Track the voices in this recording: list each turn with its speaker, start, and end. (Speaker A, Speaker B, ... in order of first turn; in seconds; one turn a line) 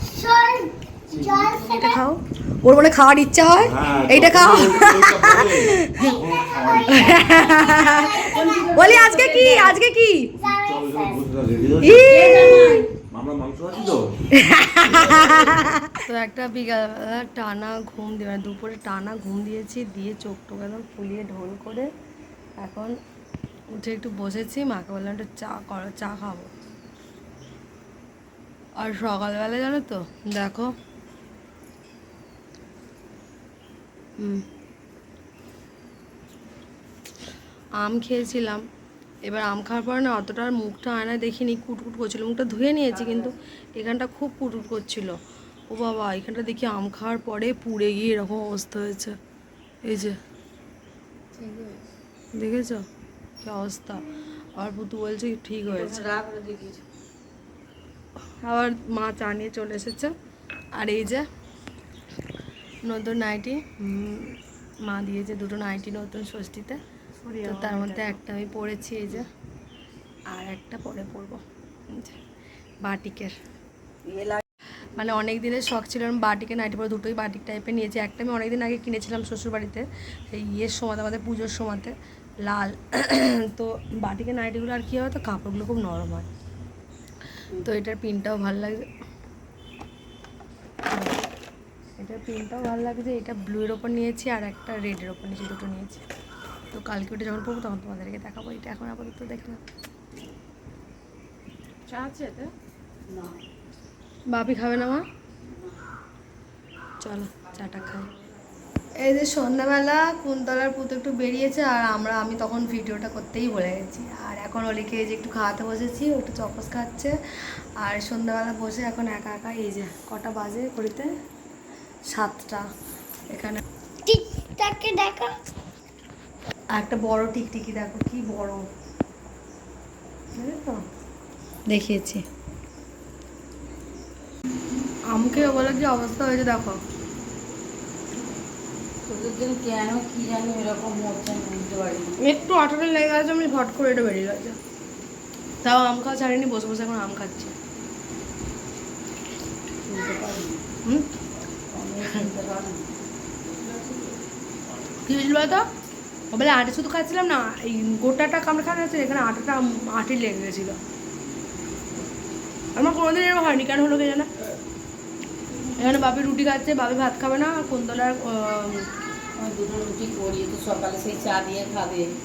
Speaker A: 0.1-2.0
Speaker B: 1.4-6.2
Speaker C: 3.6-7.6
Speaker A: 5.9-8.7
Speaker B: 6.9-10.3
Speaker D: 8.2-9.7
Speaker A: 10.4-11.2
Speaker C: 10.5-12.3
Speaker B: 11.8-12.8
Speaker D: 12.1-12.9
Speaker C: 12.9-14.2
Speaker B: 14.3-21.9
Speaker C: 14.9-15.5
Speaker B: 22.6-22.9
Speaker B: 23.7-26.5
Speaker B: 28.8-30.7
Speaker B: 37.8-38.6
Speaker B: 39.2-45.2
Speaker B: 45.7-49.1
Speaker B: 49.8-50.2
Speaker D: 51.3-51.8
Speaker B: 52.3-52.8
Speaker B: 53.4-54.0
Speaker B: 54.5-56.0
Speaker D: 55.7-56.8
Speaker B: 58.4-60.1
Speaker B: 60.7-61.3
Speaker B: 62.8-66.8
Speaker D: 67.2-68.0
Speaker B: 67.4-69.3
Speaker B: 70.3-72.2
Speaker B: 72.8-73.3
Speaker D: 74.0-74.4
Speaker B: 75.0-86.3
Speaker B: 87.6-88.9
Speaker B: 90.9-91.1
Speaker B: 92.0-96.0
Speaker B: 96.7-99.6
Speaker D: 101.9-102.5
Speaker D: 103.1-103.4
Speaker B: 104.3-105.0
Speaker B: 107.0-108.1
Speaker B: 109.0-117.1
Speaker B: 117.8-121.1
Speaker B: 122.1-122.6
Speaker B: 123.3-123.6
Speaker A: 124.0-125.3
Speaker B: 126.7-128.6
Speaker B: 130.3-130.8
Speaker B: 131.7-132.2
Speaker B: 135.1-136.8
Speaker D: 139.1-142.2
Speaker B: 142.2-144.6
Speaker B: 145.6-147.5
Speaker D: 149.8-150.6
Speaker D: 151.7-152.8
Speaker B: 155.1-155.6
Speaker B: 156.3-160.8
Speaker B: 162.7-164.3
Speaker B: 165.8-168.9
Speaker D: 169.4-172.1